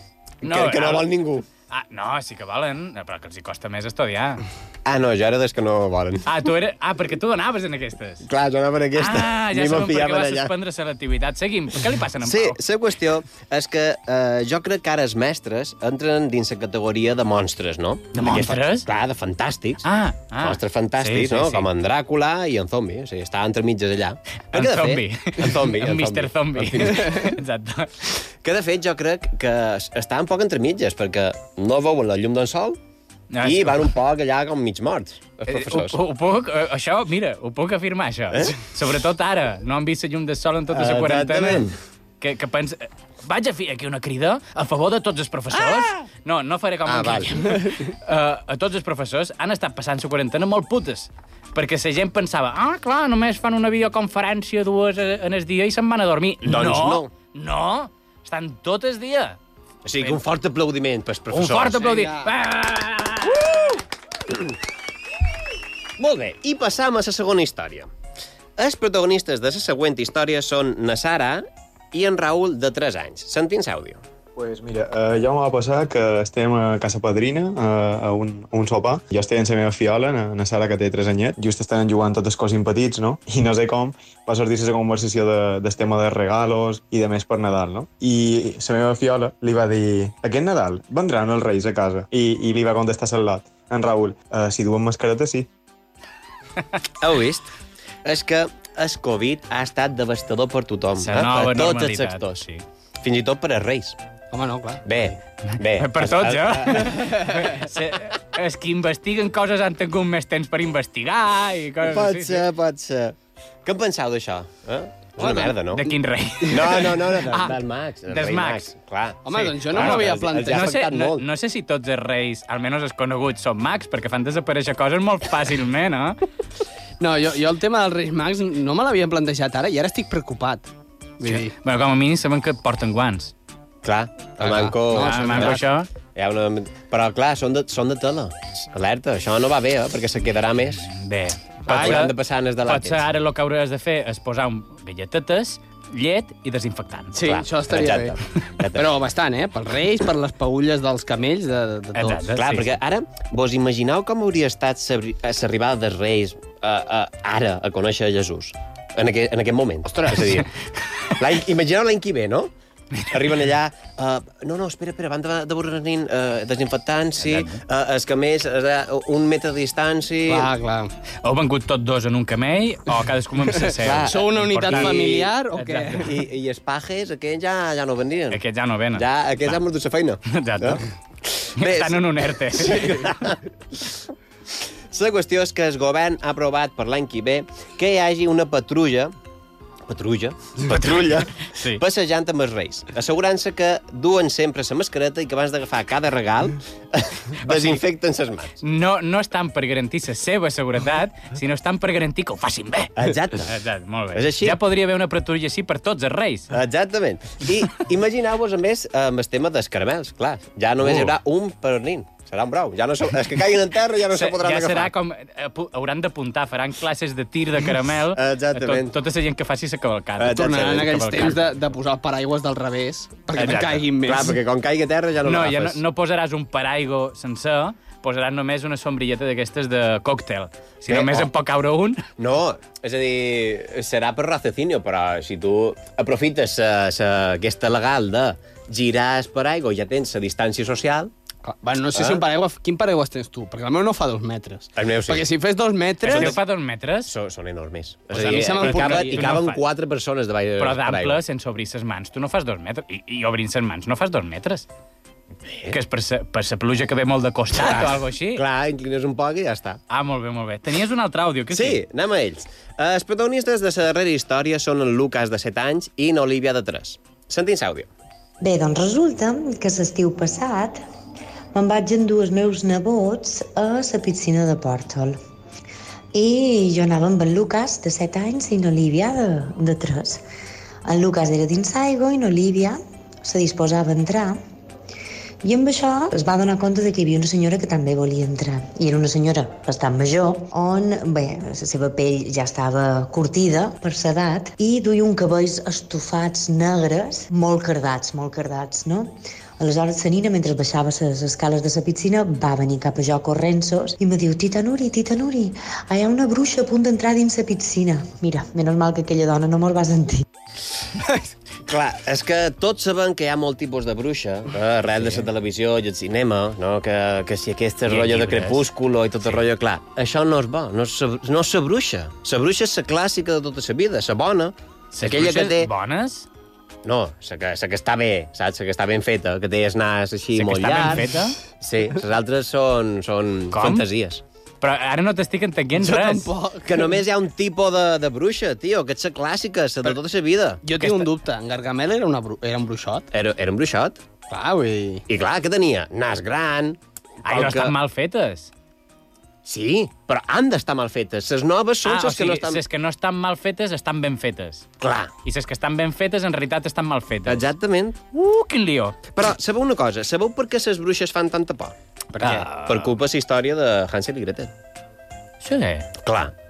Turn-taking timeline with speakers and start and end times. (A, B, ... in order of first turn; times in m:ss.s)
0:00.4-0:01.1 A
0:00.4-0:01.4 B
0:01.7-0:04.4 A
0:04.8-0:06.3 B
0:06.3-0:08.2 A
0:08.2-0:10.5 B
0:09.0-0:12.6 A
0:12.2-0:19.8 B
0:18.1-0:18.9 A
0:19.8-0:21.7 A
0:20.4-0:27.2 B
0:24.5-0:28.1 A
0:28.4-0:32.8 B
0:33.3-0:33.8 A
0:33.4-0:36.0 B
0:35.5-0:41.6 A
0:40.7-0:41.7 B
0:42.2-0:59.4 A
0:46.9-0:47.5 B
0:56.4-0:57.1 B
0:59.8-1:01.8 B
1:01.3-1:03.7 A
1:01.8-1:02.3 C
1:06.0-1:07.9 B
1:08.6-1:14.0 B
1:14.3-1:35.5 D
1:37.0-1:37.5 B
1:38.0-1:42.4 B
1:41.0-1:42.6 A
1:43.0-1:44.0 B
1:44.3-1:45.0 C
1:44.9-1:47.1 B
1:45.4-1:52.5 A
1:51.8-1:55.9 B
1:55.2-1:55.5 C
1:55.7-1:57.6 A
1:56.5-2:01.2 B
1:58.1-1:58.7 A
1:59.2-2:00.8 C
1:59.3-2:06.2 A
2:07.0-2:10.7 C
2:11.2-2:11.6 C
2:11.2-2:13.3 A
2:13.8-2:15.6 B
2:14.4-2:15.6 C
2:14.9-2:15.9 A
2:16.1-2:20.9 B
2:20.8-2:27.3 A
2:21.7-2:23.1 B
2:21.7-2:22.0 C
2:27.1-2:28.2 C
2:27.2-2:28.9 B
2:28.7-2:32.2 C
2:31.9-2:32.7 A
2:32.3-2:40.5 B
2:41.2-2:42.5 B
2:43.1-2:50.5 B
2:47.2-2:47.6 A
2:50.3-2:50.9 C
2:51.2-2:56.1 A
2:53.8-2:55.3 B
2:54.0-2:56.1 C
2:56.0-2:58.4 B
2:58.3-2:59.6 A
2:58.9-3:03.9 B
3:00.3-3:00.8 A
3:01.6-3:03.1 A
3:04.9-3:09.1 B
3:09.9-3:18.6 B
3:10.7-3:11.8 A
3:17.4-3:17.8 A
3:18.6-3:22.9 A
3:23.0-3:23.5 B
3:23.4-3:26.5 A
3:24.1-3:24.6 B
3:26.5-3:34.9 B
3:30.8-3:31.1 A
3:34.1-3:41.4 A
3:38.1-3:38.9 B
3:40.2-3:41.3 B
3:40.3-3:44.4 C
3:43.3-3:43.8 A
3:44.0-3:45.8 B
3:45.2-3:52.0 A
3:50.9-3:51.3 B
3:52.2-4:01.1 B
4:01.4-4:06.4 C
4:01.9-4:02.2 B
4:04.8-4:05.3 B
4:06.0-4:06.4 B
4:06.0-4:07.1 A
4:07.1-4:11.2 B
4:08.1-4:09.6 A
4:08.1-4:09.4 C
4:10.6-4:14.7 A
4:15.4-4:15.8 B
4:15.7-4:18.4 A
4:17.6-4:19.8 B
4:19.9-4:21.8 A
4:21.5-4:27.9 B
4:28.4-4:30.8 E
4:31.5-4:35.2 E
4:36.1-4:40.2 E
4:40.8-4:44.4 E
4:45.4-5:10.2 E
5:11.0-5:11.3 C
5:11.6-5:25.7 B
5:14.9-5:15.3 A
5:17.9-5:18.7 A
5:24.9-5:26.3 A
5:26.8-5:31.1 B
5:30.3-5:31.4 A
5:31.6-5:34.2 B
5:33.5-5:33.9 A
5:34.6-5:36.3 A
5:35.8-5:36.9 C
5:36.6-5:40.6 B
5:40.6-5:43.1 C
5:40.8-5:41.1 A
5:43.1-5:44.0 B
5:44.3-5:45.0 C
5:45.1-5:47.7 B
5:47.2-5:48.5 A
5:49.4-5:52.6 B
5:51.8-5:54.7 A
5:54.8-5:55.1 B
5:55.2-5:57.5 A
5:57.3-5:58.0 B
5:58.1-5:59.0 A
5:59.1-6:04.5 B
6:02.2-6:02.9 A
6:05.4-6:05.9 A
6:06.0-6:06.3 B